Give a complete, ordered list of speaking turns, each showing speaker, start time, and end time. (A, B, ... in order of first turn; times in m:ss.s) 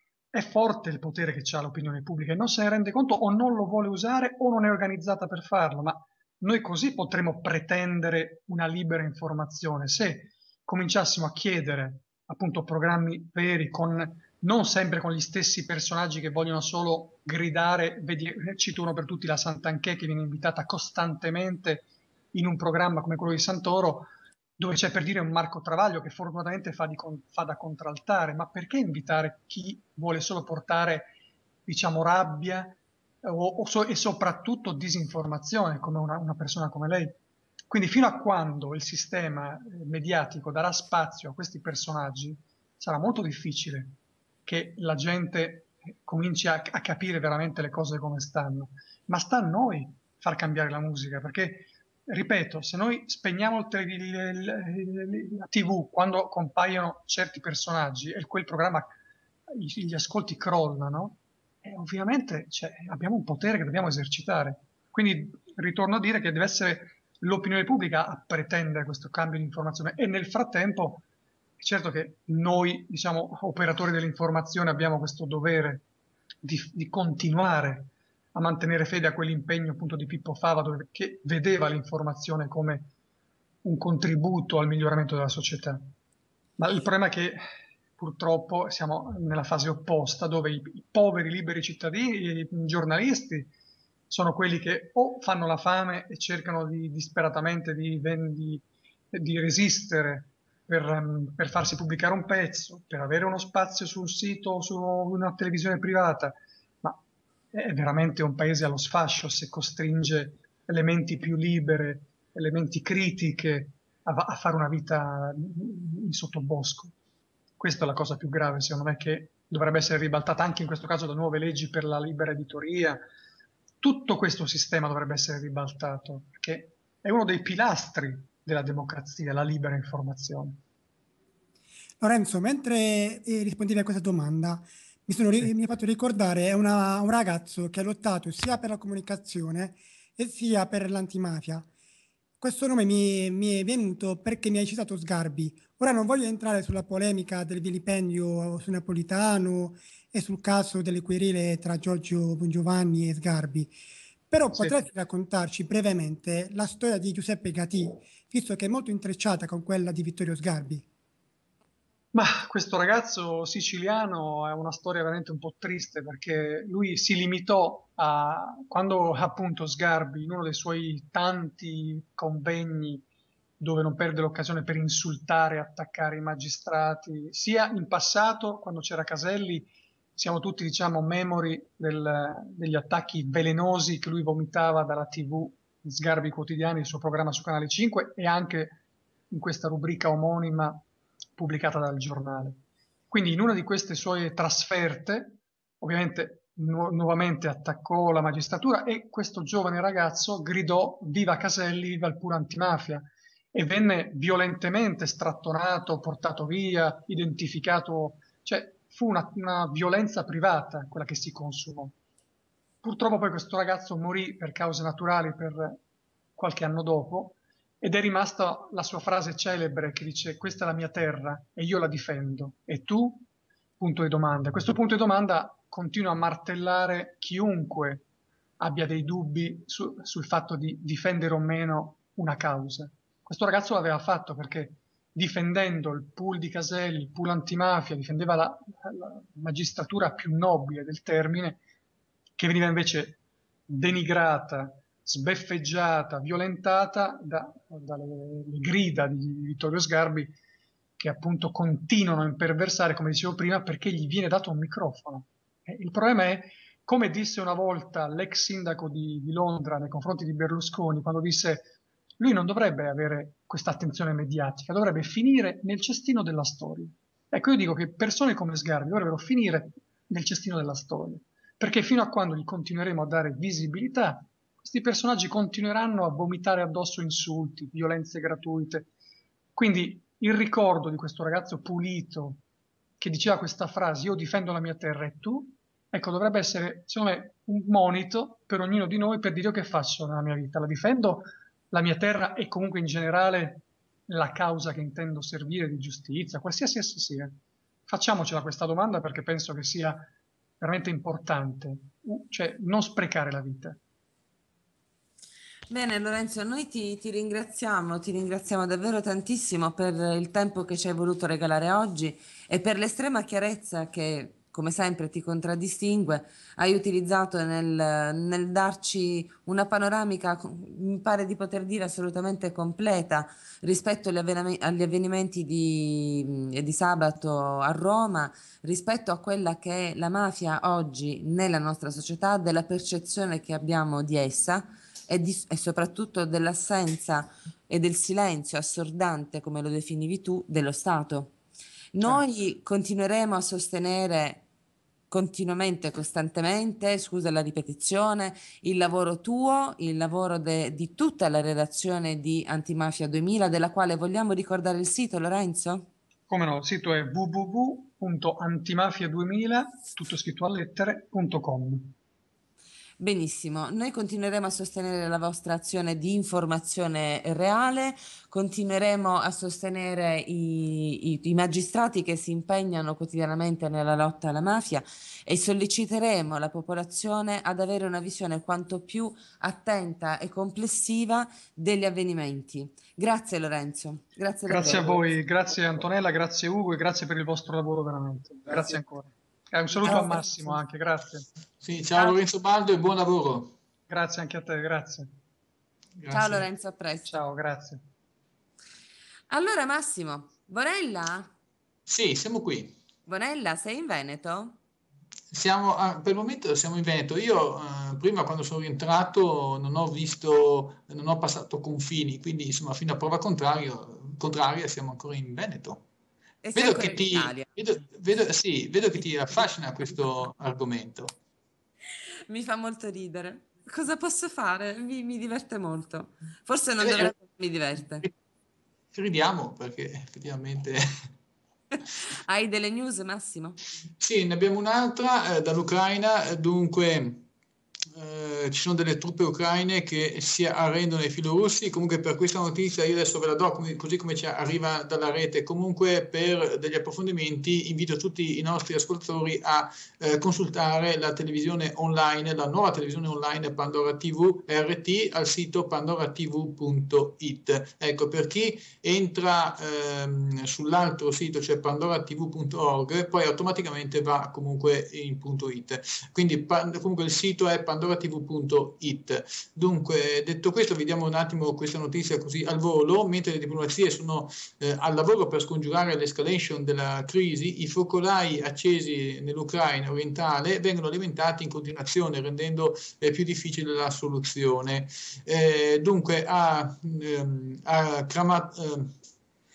0:00.3-0:31.1 A
0:31.7-0:37.2 A
0:37.7-0:58.9 A
0:59.5-1:11.0 A
1:11.6-1:15.8 A
1:16.4-1:22.9 A
1:23.6-1:25.9 A
1:26.6-1:27.4 A
1:28.0-1:33.5 A
1:34.1-1:47.0 A
1:47.5-1:56.9 A
1:57.6-2:03.0 A
2:03.8-2:10.6 A
2:12.0-2:21.7 B
2:22.4-2:33.7 B
2:34.3-2:40.8 B
2:42.1-2:53.0 A
2:53.6-3:08.8 A
3:09.3-3:10.8 A
3:11.4-3:31.9 A
3:32.8-3:35.8 A
3:36.4-3:43.2 A
3:43.8-3:48.0 A
3:48.6-4:01.6 A
4:02.4-4:10.3 A
4:11.0-4:38.9 A
4:39.6-4:42.4 A
4:43.0-5:00.0 A
5:00.6-5:03.8 A
5:05.7-5:41.3 C
5:41.9-5:44.4 C
5:45.1-5:55.9 C
5:56.3-6:01.9 A
6:03.0-6:25.0 C
6:24.5-6:31.3 A
6:29.8-6:30.6 C
6:31.6-6:33.5 D
6:33.9-6:35.1 A
6:36.0-6:36.4 D
6:36.1-6:37.2 C
6:37.0-6:37.8 A
6:39.3-6:41.3 C
6:41.9-6:42.7 D
6:43.1-6:44.6 C
6:45.3-6:55.8 D
6:56.4-6:57.5 C
6:56.6-7:01.1 D
7:02.3-7:08.0 C
7:06.8-7:07.1 D
7:08.9-7:10.8 D
7:12.2-7:13.6 C
7:14.0-7:17.2 D
7:17.9-8:08.9 D